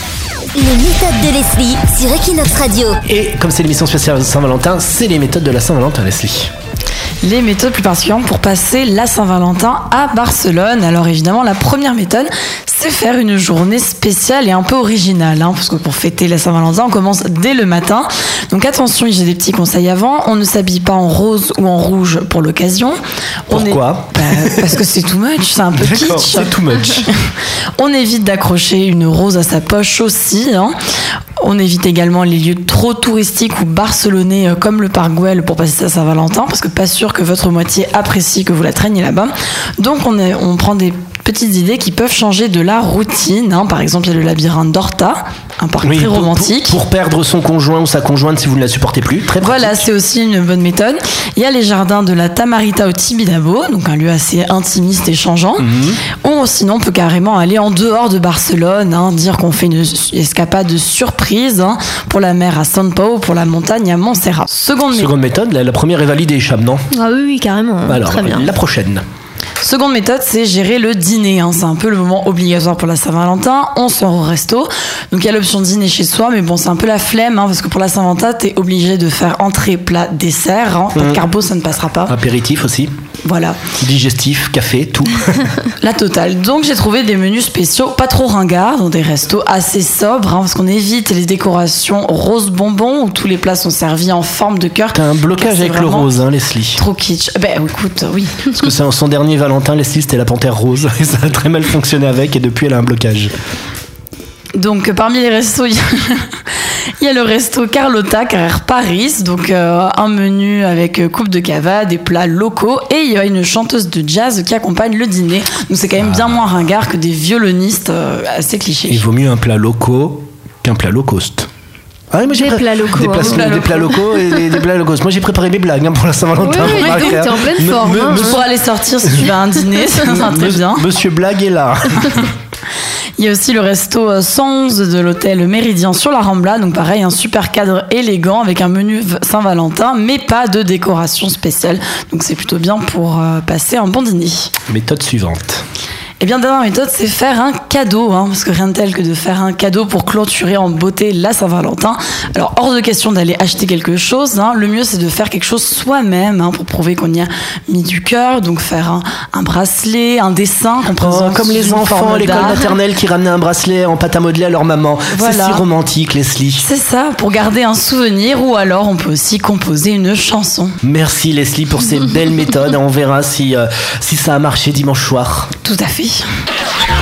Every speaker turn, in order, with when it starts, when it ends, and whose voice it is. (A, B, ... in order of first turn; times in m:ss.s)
0:00.5-0:03.0 A
0:03.1-0:06.5 B
0:07.2-0:27.1 C
0:23.5-0:24.8 B
0:25.8-0:27.1 B
0:27.8-0:30.8 C
0:31.4-0:46.8 C
0:45.8-0:49.8 B
0:49.4-1:05.1 C
0:55.6-0:56.0 B
1:04.9-1:06.8 B
1:06.9-1:08.5 D
1:07.9-1:09.0 B
1:09.6-1:22.2 C
1:20.9-1:21.2 B
1:22.1-1:22.9 B
1:23.2-1:23.6 C
1:23.8-1:25.5 B
1:25.8-1:36.1 C
1:34.9-1:36.8 B
1:36.7-1:38.6 C
1:38.5-1:43.3 B
1:44.6-1:46.3 C
1:47.0-1:59.0 C
1:56.0-1:56.3 B
1:58.9-2:01.5 B
2:02.1-2:08.4 B
2:02.3-2:04.0 D
2:06.4-2:08.4 D
2:06.8-2:07.1 C
2:08.0-2:10.8 C
2:09.9-2:12.3 B
2:13.2-2:24.5 C
2:24.7-2:25.6 B
2:26.2-2:42.7 C
2:40.9-2:46.7 B
2:45.1-2:45.6 C
2:46.6-2:50.8 C
2:50.8-2:55.5 B
2:55.6-2:56.2 C